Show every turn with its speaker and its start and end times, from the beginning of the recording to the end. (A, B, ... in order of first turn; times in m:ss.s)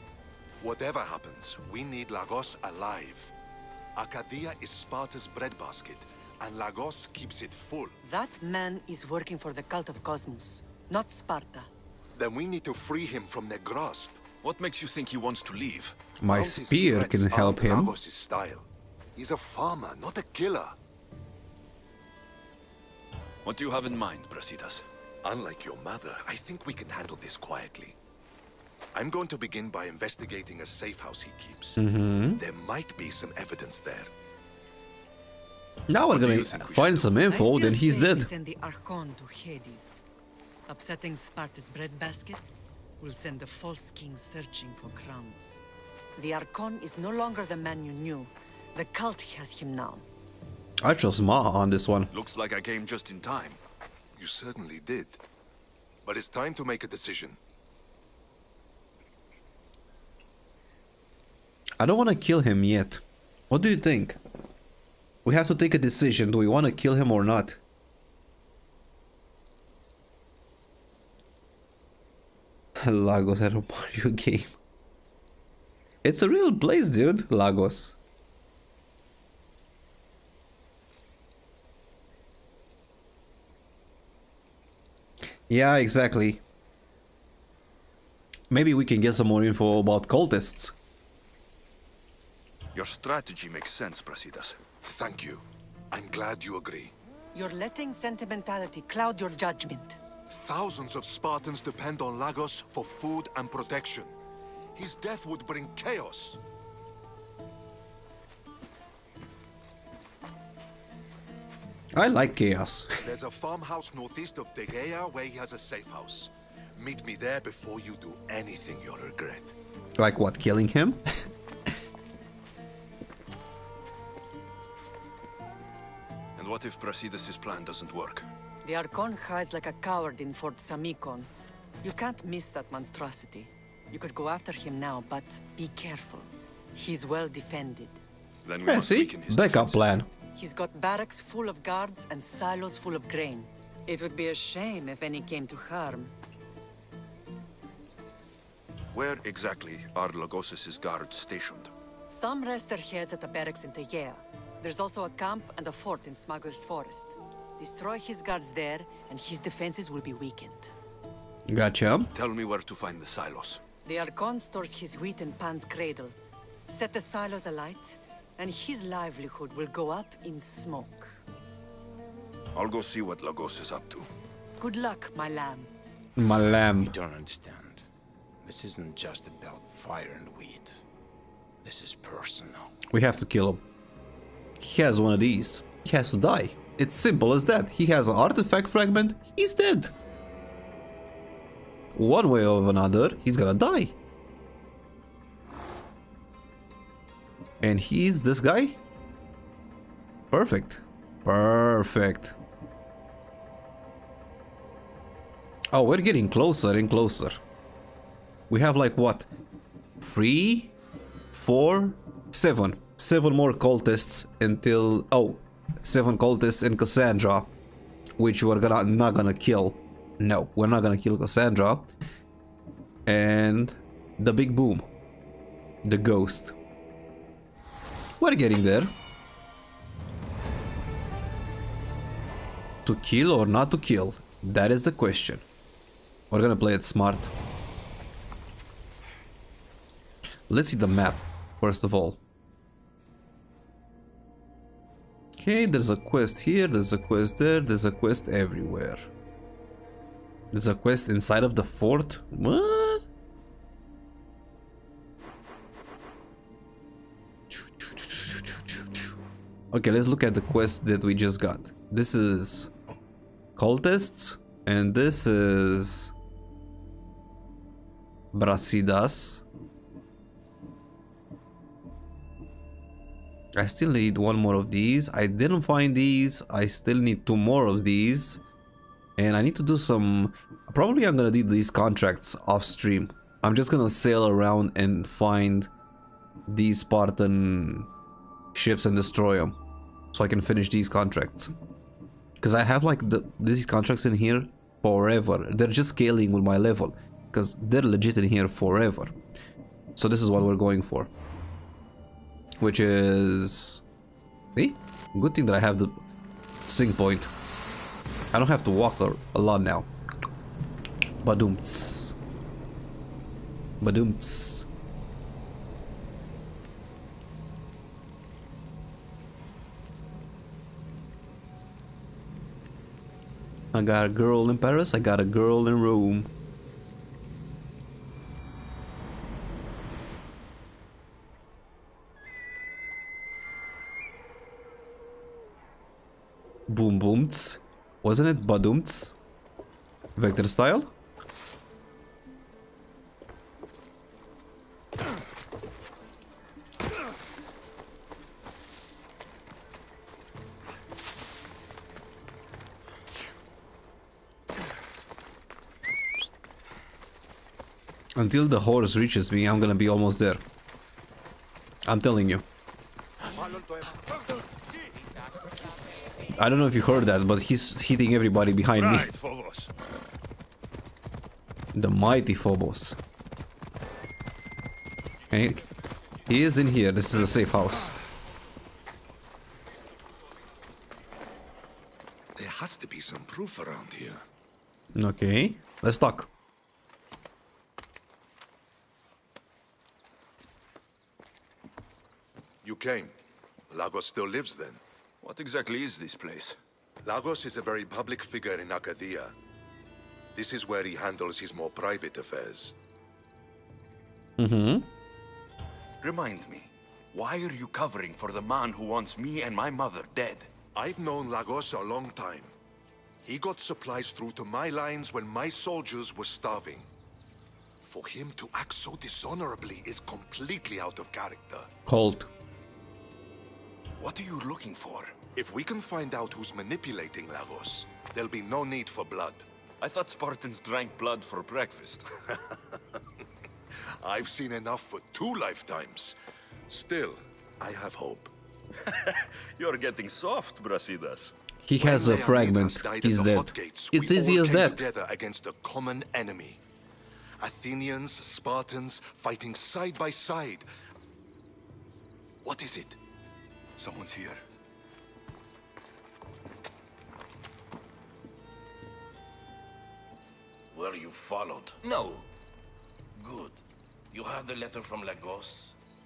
0:00.6-0:03.3 A
0:04.0-0:08.0 A
0:08.0-0:11.7 B
0:12.1-0:14.2 A
0:14.4-0:16.0 C
0:16.2-0:18.0 D
0:16.2-0:20.8 A
0:23.4-0:24.8 C
0:25.2-0:28.0 A
0:28.9-0:31.8 A
0:31.8-0:32.4 D
0:32.4-0:34.1 A
0:35.9-0:38.3 D
0:36.1-0:37.1 A
0:37.2-0:40.0 B
0:40.7-0:42.4 B
0:43.0-0:45.6 B
0:46.2-0:50.1 B
0:50.8-0:52.1 D
0:52.1-0:53.6 C
0:54.2-0:55.2 A
0:56.0-0:57.4 A
1:01.8-1:04.2 D
1:05.2-1:07.6 D
1:12.8-1:14.5 D
1:16.0-1:18.0 D
1:25.5-1:26.4 D
1:28.5-1:30.8 D
1:32.7-1:34.6 C
1:34.8-1:36.9 A
1:37.3-1:40.0 B
1:40.3-1:44.1 A
1:44.8-1:46.4 A
1:51.9-1:53.0 D
1:53.0-1:59.5 A
2:00.0-2:01.0 D
2:06.4-2:08.3 C
2:08.6-2:11.3 B
2:11.8-2:18.0 B
2:18.4-2:20.0 C
2:18.7-2:20.1 D
2:20.4-2:26.1 B
2:28.9-2:31.7 C
2:32.1-2:40.7 B
2:41.5-2:42.1 D
2:42.1-2:43.6 C
2:43.8-2:46.2 B
2:46.7-2:51.2 B
2:52.5-2:54.1 C
2:54.6-2:55.7 B
2:56.2-2:56.9 D
2:56.8-2:57.8 E
2:58.4-3:00.8 E
3:01.6-3:02.7 E
3:02.9-3:03.6 D
3:04.6-3:09.9 D
3:11.9-3:14.0 D
3:17.6-3:18.8 D
3:20.3-3:22.4 D
3:25.7-3:27.4 D
3:28.5-3:29.3 D
3:30.0-3:30.7 D
3:31.3-3:37.5 D
3:38.2-3:41.9 D
3:43.1-3:44.9 D
3:45.8-3:46.6 D
3:48.2-3:48.9 D
3:52.8-3:55.4 D
3:56.3-3:57.3 D
4:00.5-4:02.2 D
4:05.4-4:09.1 D
4:10.5-4:13.0 D
4:19.7-4:22.7 D
4:23.6-4:26.1 D
4:28.3-4:29.4 D
4:33.6-4:38.4 D
4:39.2-4:45.7 D
4:46.5-4:47.9 D
4:48.5-4:49.6 D
4:50.1-4:51.5 D
4:52.4-4:59.1 D
5:00.0-5:01.1 D
5:02.6-5:03.8 D
5:04.6-5:06.0 D
5:06.7-5:07.3 D
5:08.3-5:09.9 D
5:11.2-5:12.1 D
5:13.8-5:14.7 D
5:23.7-5:26.3 D
5:36.7-5:39.2 D
5:40.2-5:40.9 D
5:58.1-6:00.4 D
6:01.8-6:02.4 D
6:06.4-6:09.1 D
6:08.8-6:09.7 C
6:11.7-6:13.0 D
6:15.3-6:15.6 D
6:16.3-6:17.9 D
6:22.4-6:24.2 A
6:24.9-6:26.3 D
6:32.6-6:33.1 A
6:33.7-6:34.8 A
6:35.2-6:36.6 C
6:37.0-6:39.4 A
6:40.4-6:42.8 A
6:44.4-6:44.9 D
6:46.0-6:50.5 C
6:50.8-6:52.5 A
6:53.2-6:56.9 A
6:57.8-7:01.7 A
7:01.9-7:02.3 D
7:04.0-7:05.2 C
7:05.4-7:09.4 A
7:09.8-7:12.0 C
7:13.8-7:16.2 A
7:16.7-7:18.3 A
7:18.9-7:21.3 C
7:21.6-7:24.8 D
7:21.8-7:26.6 A
7:27.4-7:30.7 A
7:32.4-7:33.0 A
7:33.8-7:34.4 C
7:40.7-7:42.2 F
7:43.2-7:45.8 F